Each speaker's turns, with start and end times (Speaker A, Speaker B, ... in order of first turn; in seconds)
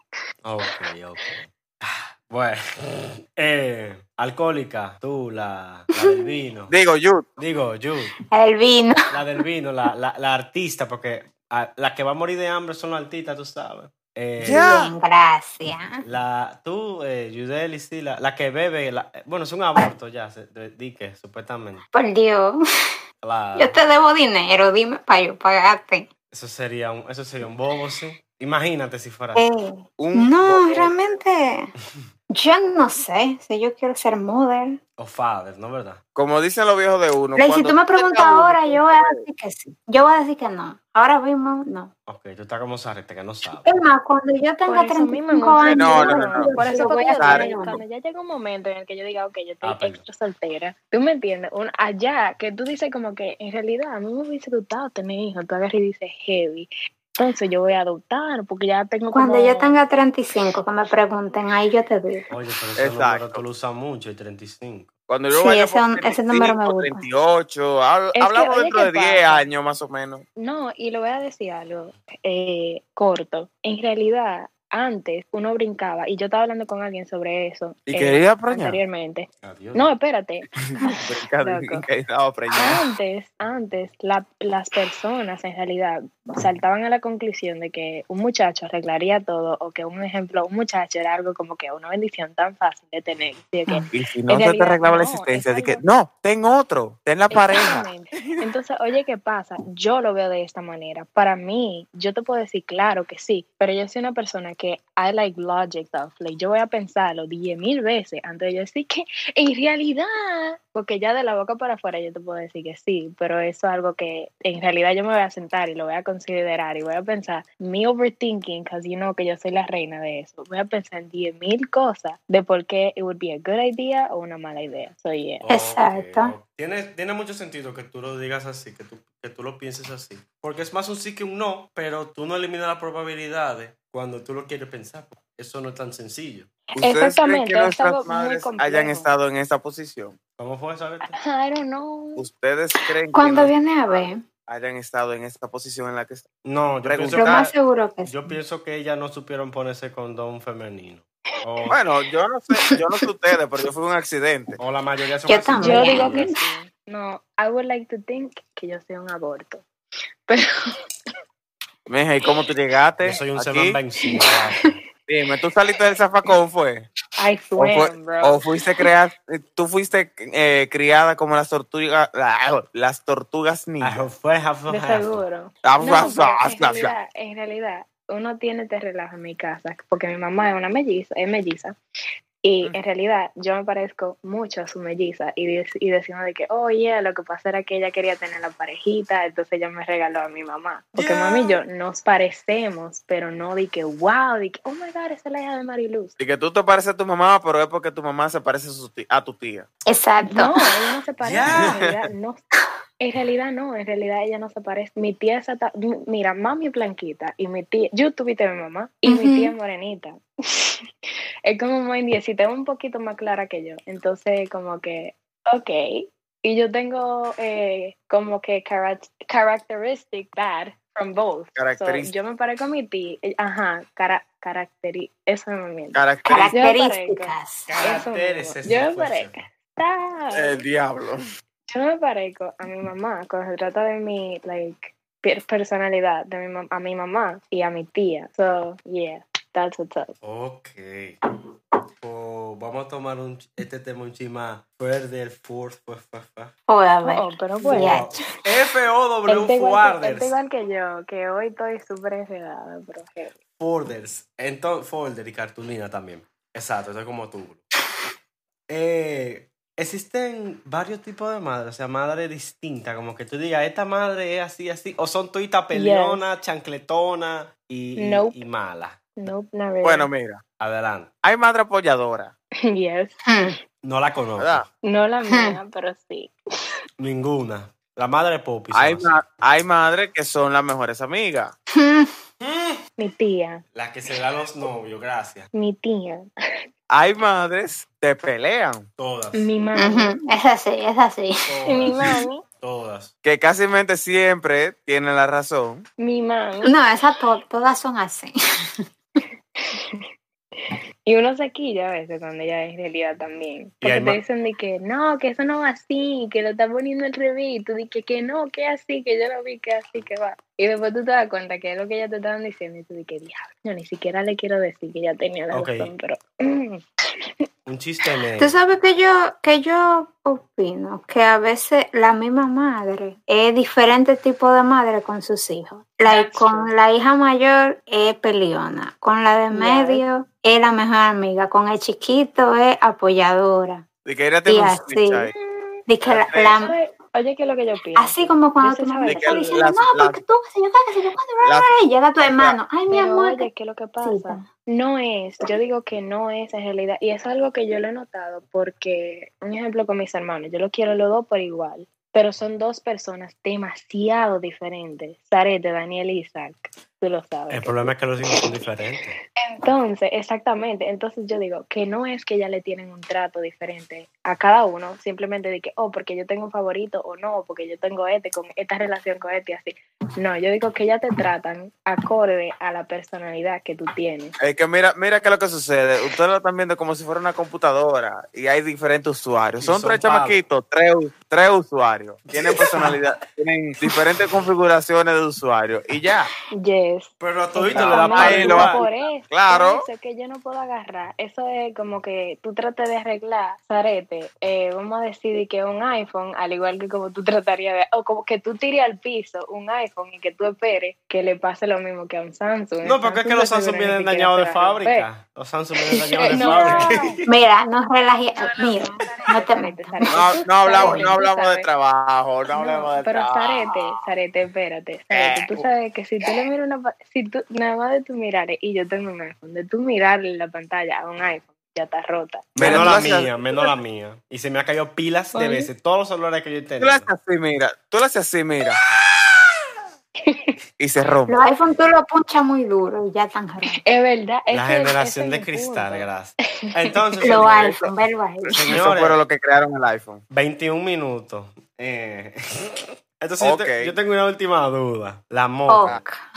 Speaker A: 0.4-6.7, 7.4-8.1, 9.1-14.8, 16.0-21.8, 23.2-23.8, 26.3-29.4, 35.0-36.0, 42.1-43.8, 49.6-50.0, 62.3-64.9, 79.4-79.9, 125.4-136.5, 140.4-141.2, 146.4-147.5, 148.1-151.8, 154.6-156.3, 163.0-164.8, 173.8-175.2, 190.9-191.6, 201.2-201.8, 227.7-229.3, 240.2-241.2, 242.0-246.5, 247.7-250.3, 253.6-257.6, 258.7-269.0, 270.6-271.1, 273.8-274.7, 277.0-279.1, 282.4-282.8, 283.7-285.5, 289.0-289.5, 291.5-293.1, 303.8-304.2, 315.5-315.9, 317.6-318.6, 357.5-359.1, 379.6-380.4, 382.5-382.9, 387.2-388.8, 402.8-407.1, 422.6-427.1, 434.5-437.8, 438.5-439.2, 440.3-445.9
Speaker B: 6.7-7.3, 14.4-14.9, 30.0-31.2, 36.1-39.2, 45.7-46.6, 47.2-47.5, 62.8-63.4, 65.1-70.2, 77.9-78.8, 81.0-82.8, 93.9-98.4, 136.8-140.2, 142.2-146.2, 146.8-147.5, 151.7-154.6, 161.9-163.8, 165.1-166.9, 167.6-174.1, 175.6-176.9, 196.2-199.7, 201.5-202.1, 221.6-222.1, 225.9-226.5, 230.3-231.2, 269.8-270.4, 271.2-272.3, 274.4-274.6, 278.7-281.5, 286.9-288.9, 293.2-295.9, 334.0-335.3, 336.0-336.6, 339.0-340.2, 341.4-341.7, 342.2-342.6, 374.4-386.3, 387.7-389.9, 406.4-406.8, 410.1-413.9, 415.1-415.7, 422.6-423.7, 426.8-428.8, 430.8-431.4, 437.3-437.9, 438.7-440.2, 443.4-443.9
Speaker C: 8.3-9.0, 14.4-16.0, 21.9-22.6, 23.6-26.1, 29.4-31.7, 32.3-34.8, 37.4-41.9, 43.6-47.8, 59.1-62.3, 65.3-67.0, 125.5-126.3, 143.1-144.2, 147.1-148.3, 155.3-156.4, 199.9-200.6, 209.1-209.5, 226.2-227.7, 246.7-248.2, 273.2-273.5, 275.3-275.6, 281.7-282.1, 289.8-291.5, 296.6-298.3, 318.4-333.9, 334.5-335.3, 335.9-336.8, 337.9-343.5, 344.0-344.5, 407.2-411.1, 431.3-433.8, 437.2-438.7, 445.7-446.2
Speaker D: 44.7-59.8, 68.1-69.5, 70.4-81.8, 82.5-95.8, 97.3-125.4, 136.8-139.1, 141.1-142.2, 155.6-159.6, 167.2-168.4, 174.7-181.8, 182.4-196.1, 200.2-202.4, 203.0-210.8, 211.4-230.6, 231.7-240.1, 247.0-248.0, 249.3-253.3, 265.7-266.2, 268.0-268.4, 269.2-270.1, 272.7-273.2, 274.8-276.3, 283.0-283.6, 285.5-286.3, 289.3-290.1, 291.6-292.4, 296.0-296.7, 299.6-300.0, 300.7-316.8, 326.0-326.7, 329.5-330.0, 335.4-335.8, 336.6-339.6, 342.9-358.4, 359.4-374.3, 386.6-405.1, 405.9-407.2, 408.4-411.7, 412.5-423.1, 425.3-425.7, 430.2-430.6, 433.8-436.1